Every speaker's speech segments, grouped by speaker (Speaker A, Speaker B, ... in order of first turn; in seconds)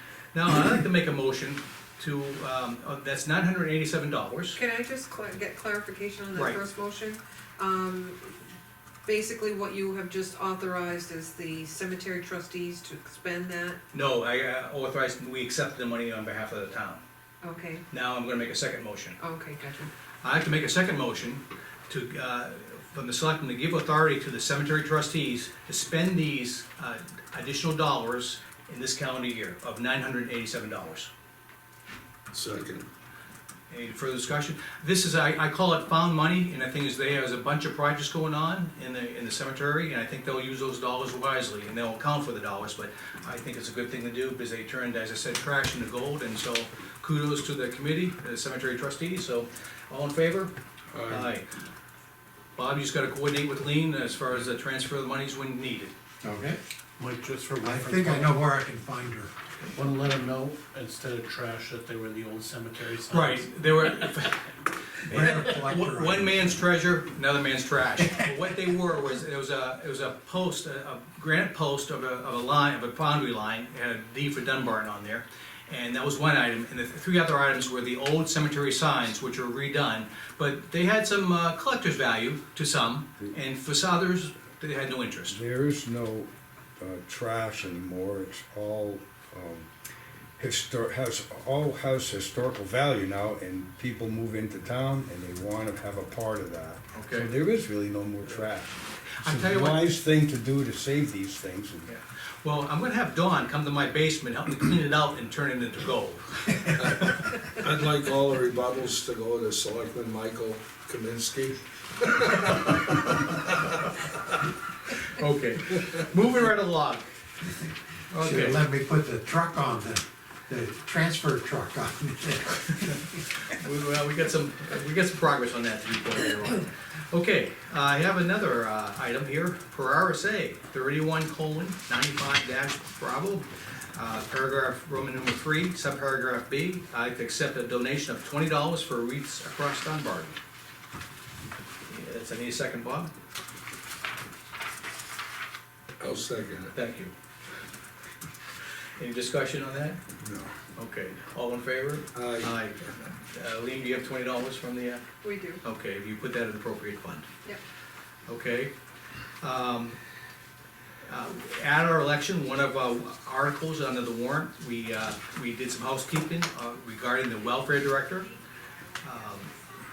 Speaker A: 0.3-4.6, 13.9-17.0, 17.9-19.2, 20.2-31.1, 33.7-50.5, 51.1-51.5, 52.6-55.9, 63.1-85.4, 96.9-97.3, 99.1-99.8, 101.9-107.3, 114.9-117.1, 118.1-118.6, 123.4-140.4, 141.9-143.1, 146.7-147.1, 149.0-150.0, 150.8-155.1, 155.6-157.3, 158.3-158.7, 159.4-160.0, 161.1-168.3, 169.0-169.5
Speaker B: 4.6-8.4, 9.1-13.8, 17.4-17.8, 19.2-19.9, 155.2-155.6
Speaker C: 32.3-32.9, 50.9-51.3, 106.8-112.9, 146.0-146.7, 150.2-150.5, 152.1-152.6
Speaker D: 56.2-56.6, 57.6-59.3, 65.1-66.4, 118.2-123.2
Speaker E: 57.0-58.3, 59.7-63.5
Speaker F: 85.3-89.7, 90.4-101.9